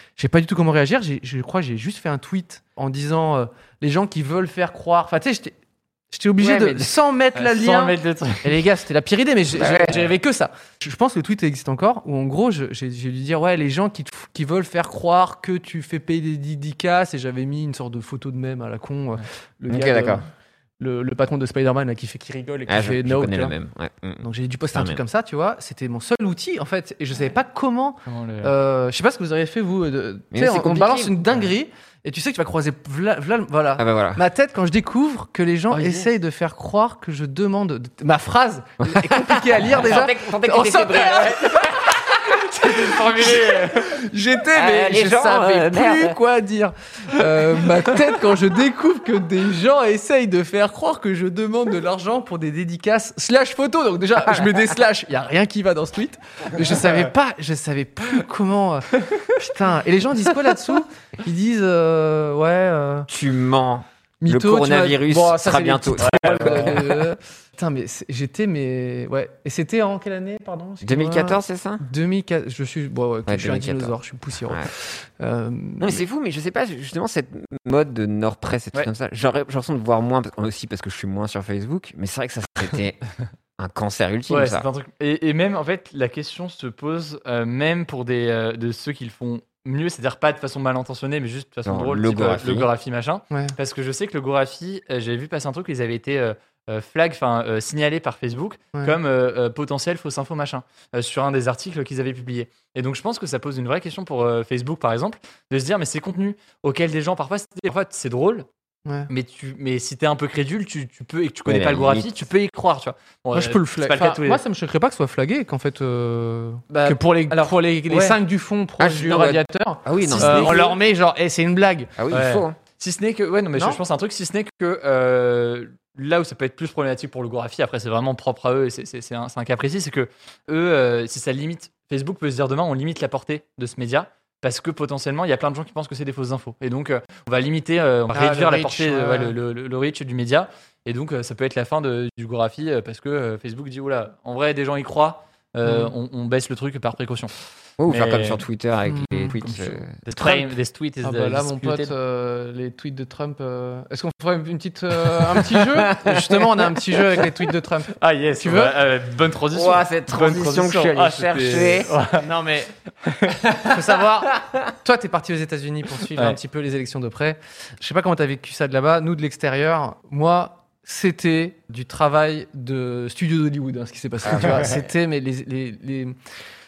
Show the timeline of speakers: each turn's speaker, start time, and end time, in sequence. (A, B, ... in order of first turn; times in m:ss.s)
0:00.2-0:05.6 A
0:06.1-0:20.3 A
0:06.4-0:06.9 B
0:07.4-0:08.6 C
0:09.5-0:10.1 B
0:19.7-0:20.2 B
0:20.8-0:23.6 A
0:22.7-0:25.0 B
0:24.2-1:03.1 A
0:28.1-0:28.5 C
0:30.3-0:31.2 B
0:33.8-0:34.2 B
0:35.7-0:36.0 C
0:38.8-0:44.0 B
0:42.9-0:43.6 C
0:44.5-0:46.2 B
1:03.1-1:07.0 B
1:04.2-1:16.0 A
1:06.0-1:06.9 C
1:10.8-1:11.8 B
1:13.3-1:14.0 B
1:15.8-1:23.0 B
1:23.6-1:24.7 B
1:24.3-1:48.5 C
1:31.6-1:32.7 B
1:49.1-1:54.4 C
1:51.5-1:52.1 B
1:53.3-2:01.9 A
1:56.7-1:58.2 C
1:58.8-2:00.7 B
2:00.1-2:00.8 C
2:02.0-2:02.6 B
2:02.1-2:27.3 C
2:03.6-2:03.8 A
2:18.1-2:19.4 A
2:25.6-2:25.9 A
2:27.8-2:29.9 B
2:27.9-2:28.4 C
2:28.9-2:29.4 A
2:29.4-2:31.9 C
2:30.2-2:30.5 A
2:31.0-2:38.8 A
2:35.5-2:36.7 B
2:38.0-2:42.3 C
2:39.5-2:42.0 B
2:42.1-2:42.7 A
2:43.1-2:43.5 C
2:43.6-2:56.2 A
2:44.3-2:44.6 B
2:54.2-2:54.8 B